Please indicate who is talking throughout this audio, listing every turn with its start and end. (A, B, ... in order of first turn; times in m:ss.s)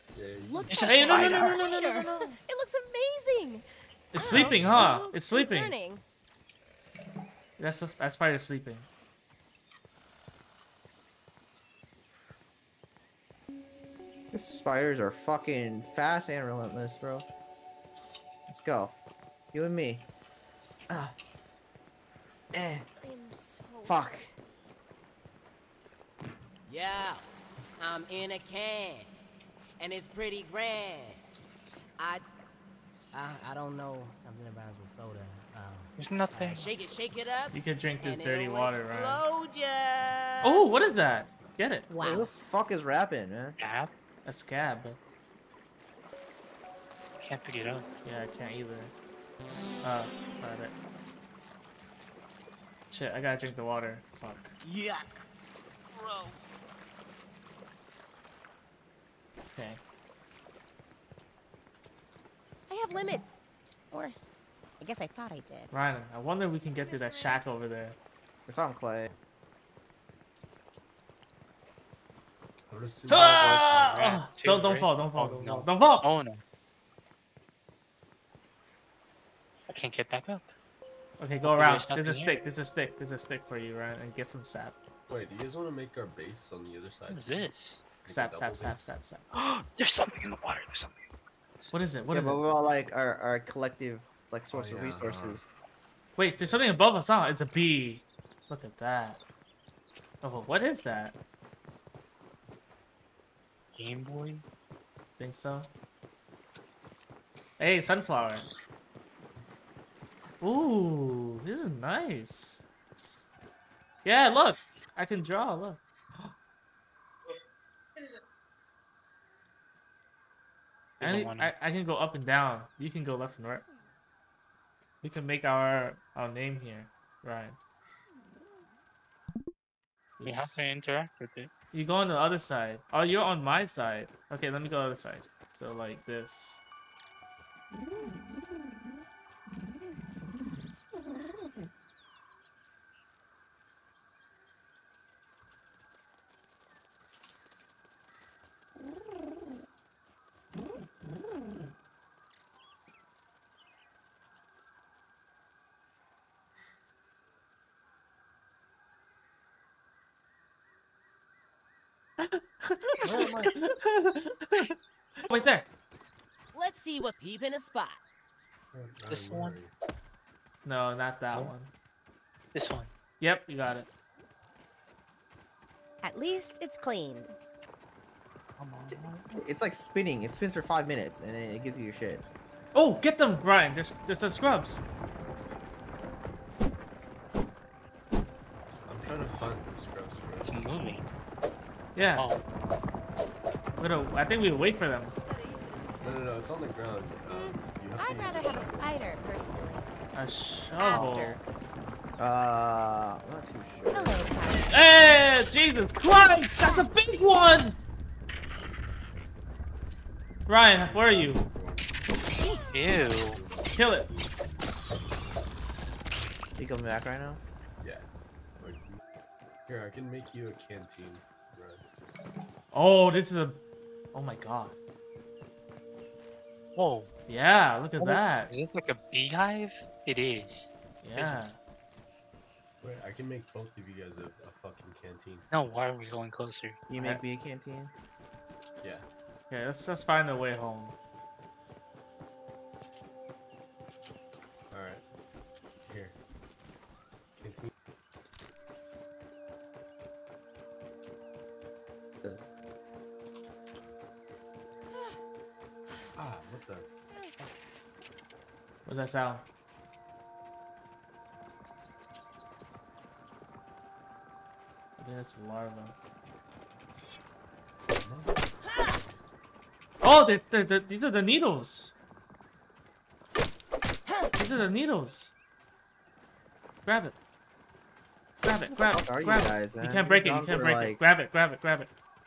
0:00.1-0:00.9 A
0:00.5-0:02.4 B
0:00.7-0:01.6 C
0:00.8-0:01.6 D
0:00.9-0:02.2 E
0:02.4-0:03.6 D
0:04.1-0:05.7 E
0:04.2-0:06.0 D
0:04.3-0:04.8 C
0:07.6-0:08.9 E
0:14.3-0:17.3 F
0:18.5-0:18.9 F
0:19.5-0:20.0 F
0:20.9-0:21.1 F
0:22.5-0:22.8 F
0:23.0-0:24.7 B
0:23.8-0:24.3 F
0:26.6-0:27.2 D
0:27.8-0:29.1 D
0:29.8-0:31.2 D
0:32.0-0:32.2 D
0:33.1-0:40.6 D
0:36.0-0:36.7 C
0:37.5-0:39.2 E
0:40.4-0:41.9 E
0:41.9-0:42.3 B
0:42.0-0:43.6 F
0:43.6-0:43.9 C
0:44.2-0:45.0 E
0:47.2-0:47.8 C
0:48.0-0:48.9 E
0:49.8-0:50.7 E
0:52.9-0:54.5 E
0:54.6-0:55.2 D
0:55.9-0:56.6 D
0:59.6-0:59.8 E
1:02.7-1:03.4 B
1:04.8-1:05.7 B
1:05.7-1:08.0 E
1:06.7-1:07.5 B
1:08.5-1:09.1 F
1:12.7-1:14.0 A
1:13.1-1:16.0 E
1:13.1-1:16.4 C
1:19.7-1:20.5 C
1:21.2-1:24.7 E
1:21.4-1:22.4 C
1:25.1-1:27.5 A
1:27.1-1:27.9 C
1:28.0-1:29.2 E
1:28.0-1:28.9 A
1:29.3-1:31.0 C
1:31.7-1:32.4 E
1:32.1-1:35.5 F
1:34.5-1:35.4 A
1:36.2-1:39.2 E
1:40.2-1:41.2 E
1:43.7-1:44.4 C
1:45.2-1:45.7 E
1:47.6-1:48.5 E
1:50.4-1:52.6 E
1:54.0-1:56.3 E
2:01.0-2:01.5 C
2:01.0-2:03.6 E
2:05.0-2:07.6 E
2:10.2-2:10.6 E
2:10.2-2:11.5 C
2:11.7-2:16.6 E
2:42.2-2:45.6 E
2:43.0-2:43.5 A
2:46.5-2:48.0 D
2:48.7-2:49.7 A
2:49.1-2:49.6 C
2:50.6-2:51.7 E
2:52.5-2:52.9 C
2:53.2-2:53.9 E
2:56.0-2:57.3 B
2:58.6-2:59.4 C
2:58.9-3:02.2 F
3:02.7-3:04.8 E
3:08.8-3:10.7 A
3:10.4-3:11.0 C
3:11.9-3:12.3 E
3:12.1-3:12.4 C
3:13.8-3:15.1 E
3:15.2-3:16.5 B
3:16.0-3:19.0 A
3:17.3-3:19.9 B
3:20.1-3:21.4 E
3:20.8-3:21.4 B
3:22.2-3:24.4 F
3:23.9-3:25.3 B
3:24.7-3:27.8 E
3:26.6-3:27.0 B
3:30.5-3:31.4 E
3:30.7-3:34.5 A
3:32.7-3:33.4 C
3:33.7-3:34.1 E
3:36.6-3:37.4 F
3:37.8-3:38.0 A
3:38.6-3:39.0 A
3:39.7-3:41.8 A
3:42.7-3:43.6 E
3:44.1-3:44.7 E
3:46.8-3:47.1 C
3:47.3-3:48.5 E
3:48.0-3:51.4 C
3:51.0-3:51.6 E
3:52.8-3:55.5 A
3:55.5-3:56.8 C
3:56.9-3:57.9 F
3:59.5-4:00.9 E
4:04.7-4:05.0 A
4:05.8-4:06.2 A
4:07.4-4:07.7 A
4:16.1-4:16.9 A
4:18.8-4:19.4 E
4:25.0-4:25.9 E
4:28.0-4:28.6 A
4:30.0-4:31.9 E
4:34.4-4:35.3 E
4:36.8-4:37.1 E
4:38.4-4:41.9 E
4:38.9-4:41.0 F